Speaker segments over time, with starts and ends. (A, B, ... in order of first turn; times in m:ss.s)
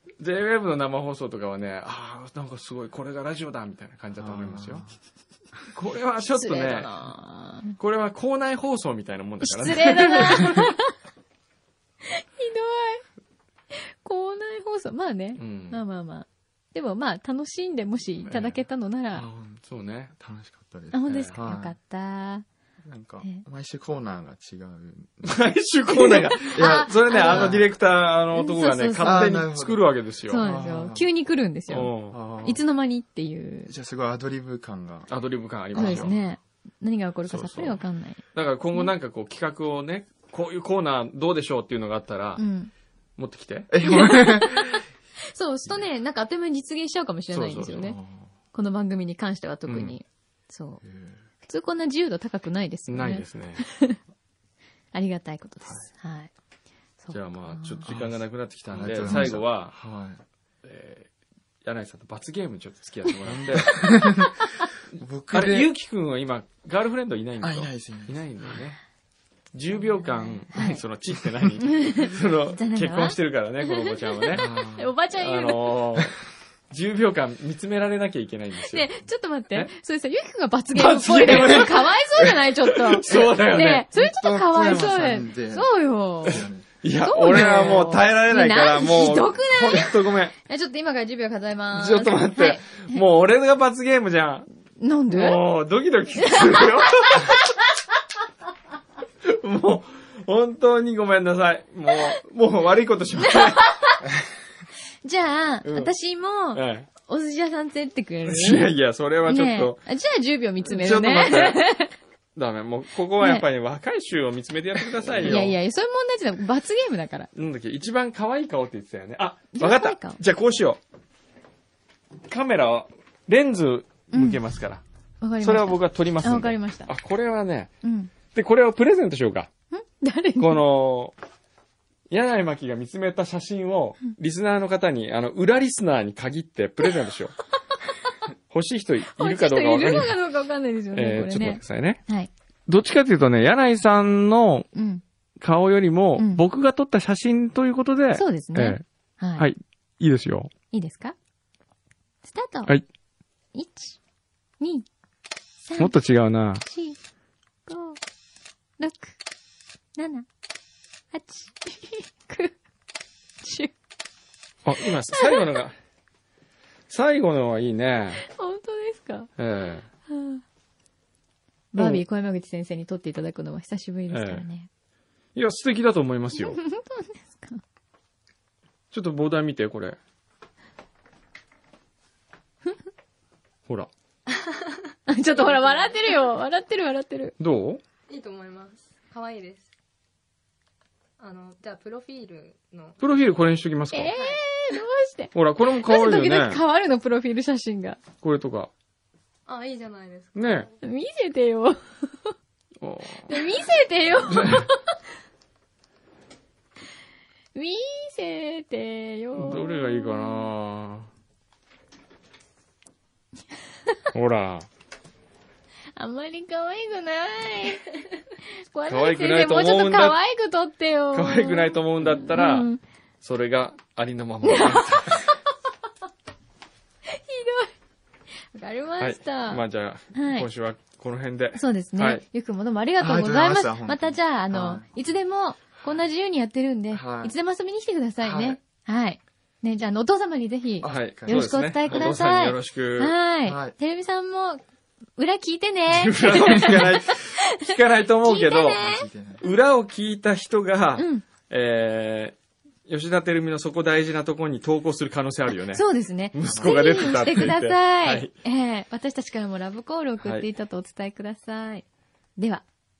0:00.2-0:04.8 A
0:04.2-0:04.8 B
0:05.7-0:06.9 A
0:06.3-0:07.8 C
0:07.8-0:10.6 A
0:09.4-0:10.9 C
0:12.0-0:13.0 C
0:13.7-0:19.3 C
0:15.4-0:15.8 A
0:18.3-0:18.6 A
0:19.1-0:19.6 B
0:19.7-0:20.1 A
0:20.2-0:21.8 B
0:20.9-0:22.4 C
0:21.1-0:21.3 A
0:22.8-0:25.4 B
0:25.2-0:30.6 A
0:25.9-0:27.6 C
0:26.5-0:27.7 B
0:28.3-0:29.2 C
0:29.0-0:31.1 B
0:30.3-0:31.9 C
0:31.7-0:32.2 A
0:32.1-0:32.6 B
0:32.4-0:33.7 C
0:33.7-0:35.1 B
0:35.1-0:36.1 A
0:35.7-0:36.1 B
0:35.8-0:38.2 C
0:37.3-0:37.8 A
0:38.3-0:42.4 A
0:42.4-0:42.7 C
0:43.2-0:43.7 A
0:43.7-0:44.7 B
0:43.8-0:48.0 C
0:47.3-0:48.0 A
0:48.5-0:50.8 C
0:49.7-0:50.0 A
0:50.8-0:51.2 B
0:51.4-0:54.0 C
0:52.9-0:53.6 A
0:54.9-0:56.3 C
0:57.0-0:57.9 C
0:57.1-0:59.8 A
0:57.8-0:58.1 B
0:58.7-1:00.2 B
0:59.1-0:59.4 C
1:00.6-1:01.1 A
1:01.6-1:04.0 A
1:03.2-1:04.4 B
1:03.7-1:04.3 C
1:05.0-1:05.7 B
1:05.3-1:08.8 A
1:07.4-1:08.6 B
1:09.5-1:14.5 A
1:10.0-1:10.8 C
1:11.1-1:11.5 B
1:11.6-1:15.8 C
1:14.3-1:14.9 B
1:15.1-1:16.2 A
1:16.7-1:19.0 A
1:18.7-1:26.4 C
1:20.7-1:23.9 A
1:23.9-1:26.7 B
1:26.3-1:30.3 A
1:27.0-1:33.0 C
1:31.7-1:34.5 A
1:34.8-1:35.4 C
1:35.1-1:37.4 A
1:36.3-1:37.6 C
1:39.2-1:43.6 A
1:43.2-1:44.0 C
1:45.0-1:48.7 C
1:45.6-1:45.9 A
1:46.5-1:46.9 A
1:48.3-1:49.8 A
1:49.2-1:51.9 C
1:50.6-1:51.6 A
1:52.4-1:55.6 A
1:53.2-1:53.4 C
1:55.2-1:57.3 C
1:57.3-2:00.8 A
1:59.5-2:00.2 C
2:02.2-2:04.8 A
2:04.1-2:04.4 C
2:05.2-2:06.9 C
2:05.4-2:07.7 A
2:07.8-2:08.1 C
2:08.2-2:09.5 A
2:09.7-2:10.6 C
2:10.4-2:11.1 A
2:12.1-2:17.3 A
2:18.5-2:20.2 A
2:19.1-2:22.3 C
2:20.9-2:22.0 A
2:22.7-2:24.7 A
2:24.7-2:25.0 C
2:25.4-2:28.8 A
2:26.2-2:26.4 C
2:28.1-2:29.5 C
2:29.4-2:30.5 A
2:30.7-2:31.1 C
2:32.2-2:32.7 C
2:33.5-2:34.0 C
2:34.6-2:34.8 C
2:35.6-2:36.0 C
2:35.8-2:36.6 A
2:36.6-2:37.0 C
2:37.6-2:38.0 C
2:38.8-2:39.2 C
2:40.0-2:40.3 C
2:41.1-2:42.6 C
2:43.4-2:43.7 C
2:44.6-2:45.7 A
2:45.1-2:45.5 C
2:46.9-2:48.2 A
2:48.2-2:49.3 C
2:49.4-2:49.9 A
2:50.1-2:50.4 C
2:51.7-2:54.7 C
2:51.8-2:52.0 A
2:54.1-2:54.4 A
2:55.3-2:56.6 A
2:56.4-2:57.6 C
2:58.9-3:00.0 A
3:04.3-3:06.2 D
3:05.1-3:07.3 C
3:07.4-3:07.8 A
3:08.1-3:09.7 D
3:11.2-3:13.2 D
3:13.0-3:14.1 A
3:13.9-3:18.0 C
3:15.3-3:16.6 A
3:18.2-3:18.7 A
3:19.5-3:20.7 D
3:20.3-3:20.7 A
3:20.8-3:22.3 C
3:22.8-3:23.5 A
3:23.2-3:24.9 C
3:24.3-3:24.7 A
3:27.5-3:30.5 C
3:29.4-3:31.1 A
3:34.1-3:34.6 A
3:36.0-3:38.0 C
3:38.7-3:42.8 C
3:38.9-3:40.2 A
3:41.1-3:42.7 A
3:43.2-3:45.2 A
3:44.4-3:45.2 C
3:47.1-3:47.7 C
3:48.5-3:49.6 C
3:49.0-3:52.2 A
3:50.1-3:50.5 C
3:51.6-4:04.6 C
3:53.0-3:54.9 B
3:56.9-3:57.3 B
3:58.2-3:58.6 B
4:00.8-4:02.1 B
4:00.8-4:03.1 A
4:03.4-4:03.7 B
4:05.2-4:09.0 C
4:05.9-4:08.8 A
4:08.7-4:09.4 B
4:09.4-4:12.4 A
4:11.0-4:11.2 C
4:12.9-4:18.3 A
4:15.7-4:21.8 C
4:20.2-4:20.5 A
4:22.4-4:22.6 C